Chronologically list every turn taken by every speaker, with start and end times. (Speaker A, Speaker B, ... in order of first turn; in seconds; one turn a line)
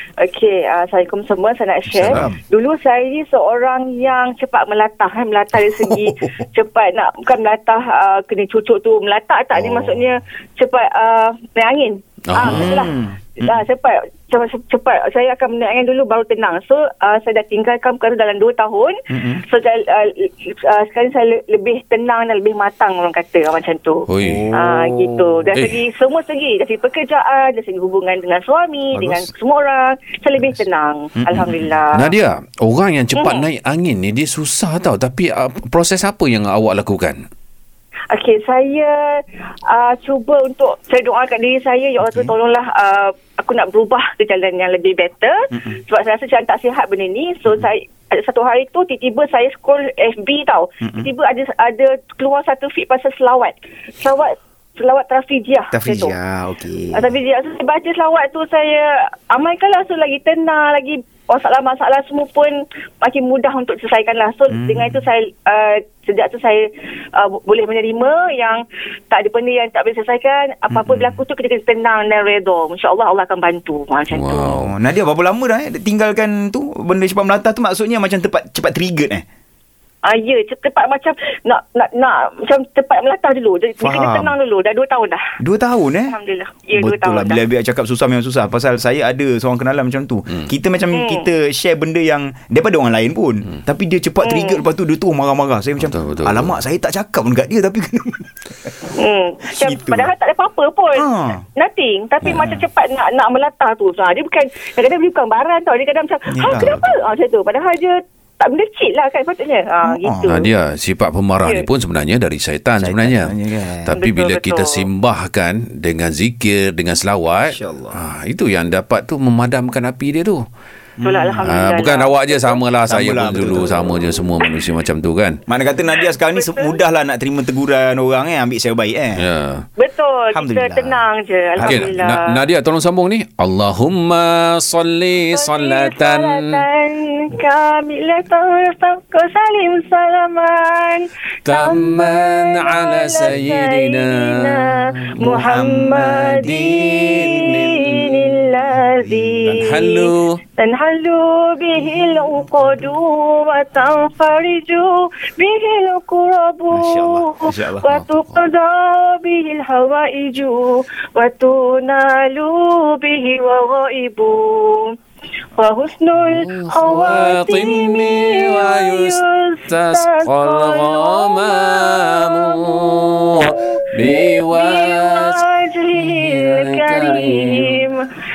Speaker A: 0.2-32.0
Speaker B: 1.9-2.4
Speaker B: 5.6-6.3
Speaker C: 12.3-12.8
Speaker B: 12.4-13.6
Speaker B: 19.1-19.4
Speaker C: 24.1-24.5
Speaker B: 24.2-25.4
Speaker C: 25.5-25.8
Speaker B: 28.9-29.3
Speaker B: 31.2-31.8
Speaker C: 31.9-37.2
Speaker A: 33.1-33.5
Speaker A: 38.1-56.1
Speaker B: 42.0-42.3
Speaker B: 50.8-51.1
Speaker B: 55.7-57.1
Speaker A: 56.9-74.6
Speaker B: 64.5-65.1
Speaker B: 70.7-71.2
Speaker C: 74.1-74.7
Speaker B: 74.6-79.2
Speaker A: 80.0-85.2
Speaker B: 83.8-84.3
Speaker B: 85.4-86.2
Speaker A: 86.1-87.4
Speaker B: 86.7-98.7
Speaker A: 90.9-91.3
Speaker A: 94.2-94.6
Speaker C: 95.8-96.6
Speaker A: 98.9-110.5
Speaker B: 99.5-100.1
Speaker B: 100.9-101.4
Speaker C: 102.2-102.6
Speaker B: 106.3-106.8
Speaker C: 106.5-106.9
Speaker B: 109.8-110.3
Speaker C: 110.2-113.3
Speaker B: 112.8-113.9
Speaker C: 113.8-120.4
Speaker A: 113.9-114.8
Speaker B: 117.4-118.0
Speaker B: 121.0-121.5
Speaker A: 121.0-122.6
Speaker C: 121.4-125.4
Speaker B: 122.9-124.0
Speaker B: 125.5-129.2
Speaker A: 125.9-126.8
Speaker C: 129.2-129.6
Speaker A: 129.8-132.3
Speaker B: 130.3-131.9
Speaker C: 131.7-136.7
Speaker A: 135.2-164.9
Speaker C: 141.4-148.5
Speaker B: 145.2-145.9
Speaker B: 149.1-149.5
Speaker C: 149.5-150.4
Speaker B: 156.7-158.0
Speaker C: 158.0-158.2
Speaker A: 165.6-172.8
Speaker C: 166.2-177.8
Speaker A: 173.4-178.1